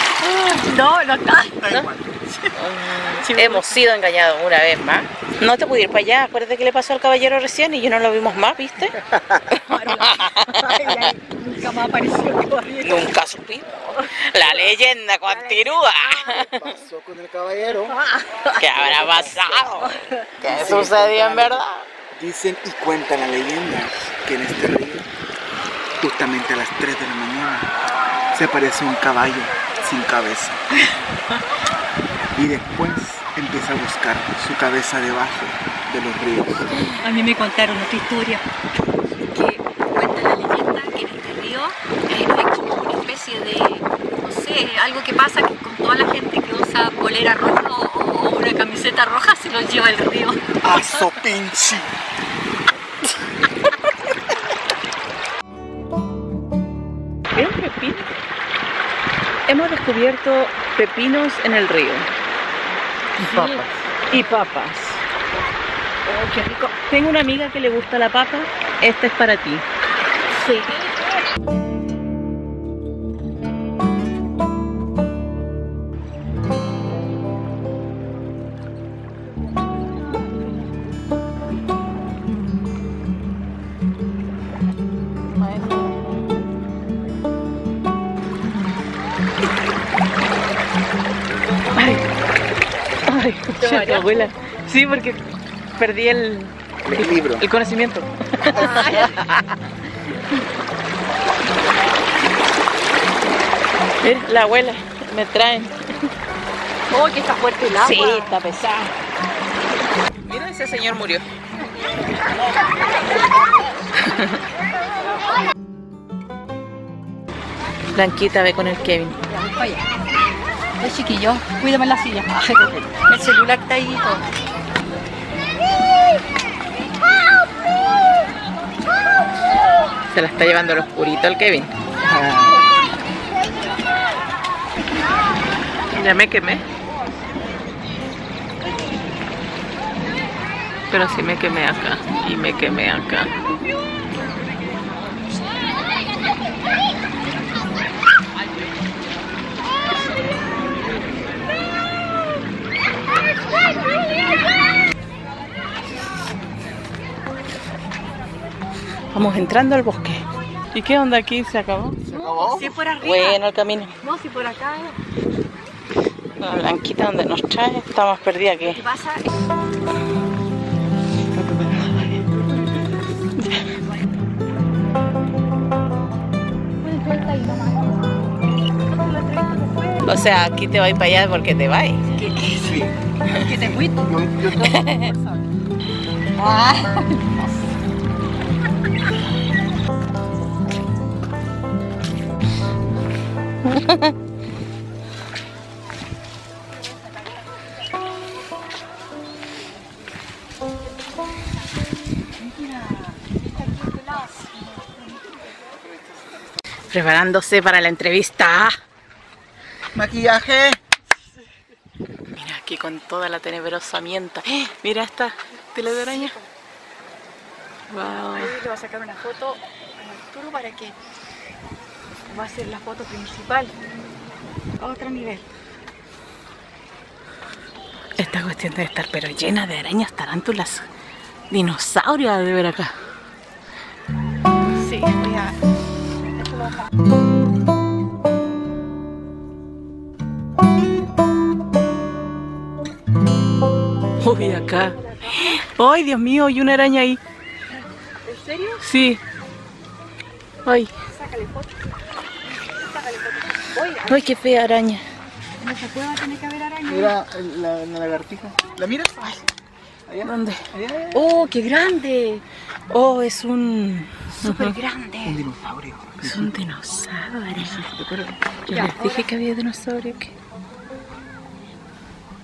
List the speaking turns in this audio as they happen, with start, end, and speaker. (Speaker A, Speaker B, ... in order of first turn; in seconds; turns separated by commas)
Speaker A: 0.2-2.5, Speaker B: 1.7-2.1, Speaker C: 2.5-11.1, Speaker A: 3.1-3.8, Speaker A: 9.6-13.1, Speaker C: 12.8-16.7, Speaker A: 15.3-16.3, Speaker B: 16.3-18.0, Speaker A: 17.9-18.5, Speaker C: 18.4-21.9, Speaker B: 18.7-19.5, Speaker A: 19.8-20.2, Speaker B: 20.4-25.1, Speaker B: 26.0-27.7, Speaker B: 28.3-30.6, Speaker B: 32.3-36.7, Speaker A: 37.0-38.4, Speaker A: 39.3-51.1, Speaker B: 50.6-51.9, Speaker C: 57.3-58.1, Speaker C: 59.5-62.1, Speaker B: 63.2-63.8, Speaker A: 63.2-63.6, Speaker C: 64.1-65.0, Speaker A: 66.1-66.7, Speaker C: 66.7-69.6, Speaker A: 70.3-70.8, Speaker C: 85.3-86.0, Speaker C: 91.7-92.1, Speaker C: 93.0-95.2, Speaker A: 93.6-94.3, Speaker C: 95.8-99.5, Speaker B: 96.8-97.4, Speaker A: 98.5-99.2, Speaker C: 104.0-105.9, Speaker A: 106.9-108.3, Speaker C: 107.7-108.9, Speaker C: 110.2-111.2, Speaker C: 114.0-114.4, Speaker C: 117.9-119.2, Speaker A: 119.3-119.8, Speaker A: 120.8-124.2, Speaker B: 122.6-122.8, Speaker C: 130.1-131.7, Speaker B: 132.1-132.5, Speaker C: 135.9-136.6, Speaker C: 140.9-143.3, Speaker C: 159.1-162.0, Speaker B: 162.0-162.8, Speaker A: 162.1-163.4, Speaker C: 163.0-163.9, Speaker A: 164.0-165.0, Speaker C: 166.4-168.8, Speaker A: 168.7-169.3, Speaker C: 171.5-172.0, Speaker C: 173.4-173.7, Speaker A: 176.8-178.1, Speaker A: 178.8-180.0, Speaker C: 180.0-182.0, Speaker A: 182.2-184.1, Speaker B: 182.6-184.9, Speaker C: 184.7-185.1, Speaker A: 184.8-185.3, Speaker A: 186.4-187.2, Speaker C: 193.7-194.1, Speaker A: 202.7-204.3, Speaker C: 206.9-208.8, Speaker B: 209.9-210.8, Speaker C: 212.3-216.3, Speaker A: 215.9-216.5, Speaker C: 217.9-218.5, Speaker A: 218.0-221.0, Speaker A: 222.3-223.7, Speaker A: 224.8-225.4, Speaker C: 228.2-230.9, Speaker C: 231.5-232.9, Speaker A: 234.8-235.6, Speaker C: 244.2-247.2, Speaker A: 245.0-245.5, Speaker A: 248.2-248.8, Speaker C: 248.8-249.2, Speaker C: 250.7-250.9, Speaker A: 251.1-251.8, Speaker A: 252.7-254.3, Speaker C: 254.0-255.0, Speaker A: 255.6-257.1, Speaker B: 256.9-259.4, Speaker B: 260.1-261.4, Speaker C: 260.2-260.7, Speaker A: 261.1-262.4, Speaker C: 261.2-264.8, Speaker A: 264.4-265.4, Speaker B: 265.2-266.5, Speaker C: 266.2-267.8, Speaker B: 267.5-268.6, Speaker C: 268.7-270.3, Speaker A: 268.7-269.3